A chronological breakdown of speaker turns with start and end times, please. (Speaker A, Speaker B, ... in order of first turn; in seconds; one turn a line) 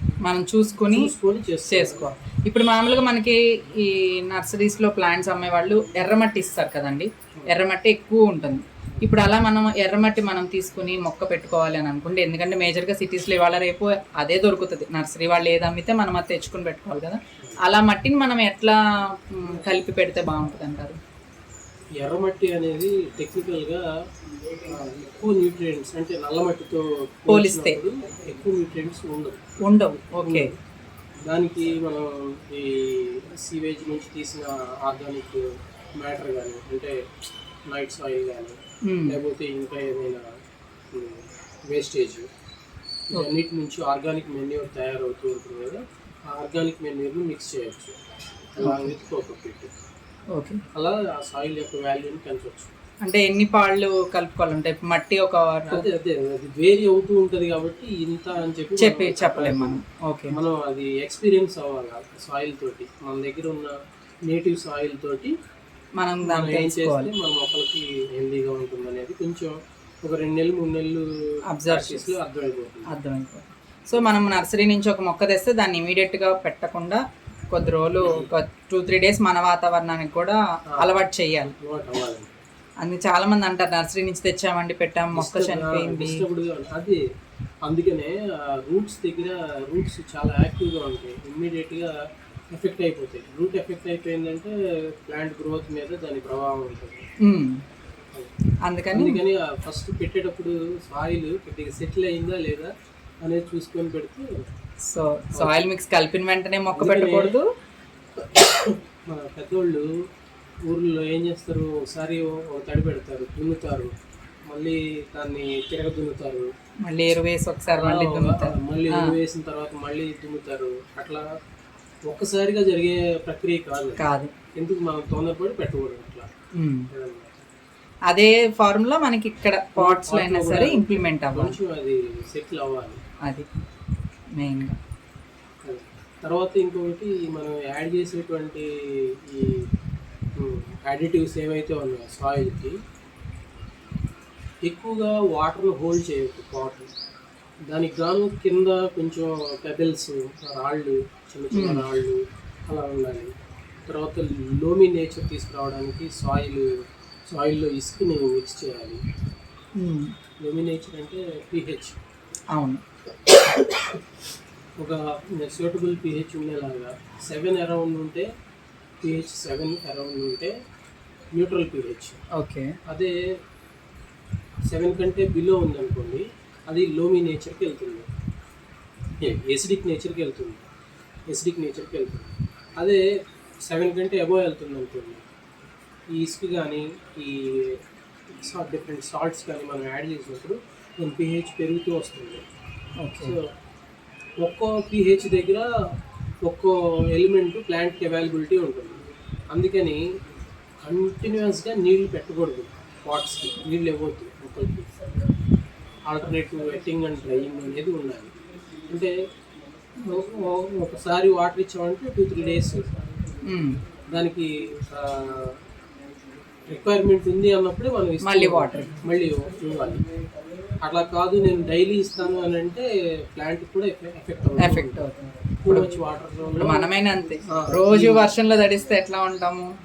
Speaker A: 0.2-1.1
Speaker B: 0.9-2.1
Speaker A: 1.7-21.0
Speaker B: 22.0-23.8
Speaker B: 24.6-29.4
Speaker A: 27.3-27.8
Speaker A: 29.7-30.5
Speaker B: 30.2-30.6
Speaker B: 31.3-35.4
Speaker B: 36.0-37.0
Speaker B: 37.7-38.6
Speaker A: 38.9-39.2
Speaker B: 39.1-40.2
Speaker B: 40.9-42.3
Speaker B: 43.1-45.8
Speaker B: 46.3-48.0
Speaker B: 48.5-49.7
Speaker A: 48.6-49.0
Speaker A: 50.4-50.6
Speaker B: 50.8-52.7
Speaker A: 53.0-55.9
Speaker B: 55.7-59.8
Speaker A: 58.8-60.4
Speaker B: 60.3-63.7
Speaker B: 64.3-65.3
Speaker A: 66.0-67.1
Speaker B: 66.2-71.0
Speaker A: 71.5-72.1
Speaker B: 71.6-72.9
Speaker A: 72.9-81.5
Speaker B: 81.6-82.3
Speaker A: 82.8-86.2
Speaker B: 85.1-87.0
Speaker B: 87.7-91.9
Speaker B: 92.5-97.0
Speaker A: 97.2-97.6
Speaker A: 98.7-99.2
Speaker B: 98.9-102.7
Speaker B: 103.2-104.3
Speaker A: 104.9-107.5
Speaker B: 105.3-105.7
Speaker B: 106.8-107.3
Speaker B: 108.2-109.9
Speaker B: 110.7-113.9
Speaker B: 114.5-116.5
Speaker A: 116.9-119.1
Speaker B: 117.7-121.2
Speaker B: 122.1-126.3
Speaker A: 124.0-124.3
Speaker B: 126.9-127.5
Speaker A: 128.1-131.6
Speaker B: 129.8-133.0
Speaker A: 134.4-134.8
Speaker B: 135.7-138.7
Speaker B: 139.3-139.7
Speaker B: 140.4-142.8
Speaker B: 144.7-146.9
Speaker B: 147.7-153.3
Speaker A: 151.5-151.9
Speaker B: 153.9-156.7
Speaker B: 157.3-159.0
Speaker A: 159.8-160.1
Speaker B: 160.4-161.9
Speaker A: 162.6-162.8
Speaker B: 163.5-163.9
Speaker B: 164.8-168.3
Speaker B: 169.0-170.5
Speaker B: 171.4-172.2
Speaker A: 172.4-172.7
Speaker B: 172.9-173.1
Speaker B: 174.7-178.1
Speaker B: 179.2-180.6
Speaker B: 181.3-183.0
Speaker B: 183.7-185.2
Speaker B: 186.2-187.8
Speaker B: 188.4-192.4
Speaker A: 193.0-193.3
Speaker B: 194.4-195.7
Speaker B: 196.4-200.0
Speaker B: 200.8-204.9
Speaker B: 206.1-208.3
Speaker B: 210.0-212.9
Speaker A: 213.5-213.8
Speaker B: 214.1-215.5
Speaker B: 216.7-220.1
Speaker A: 218.2-218.9
Speaker B: 220.8-225.1
Speaker A: 224.6-225.9
Speaker B: 225.6-226.8
Speaker A: 226.6-229.7
Speaker B: 227.5-228.3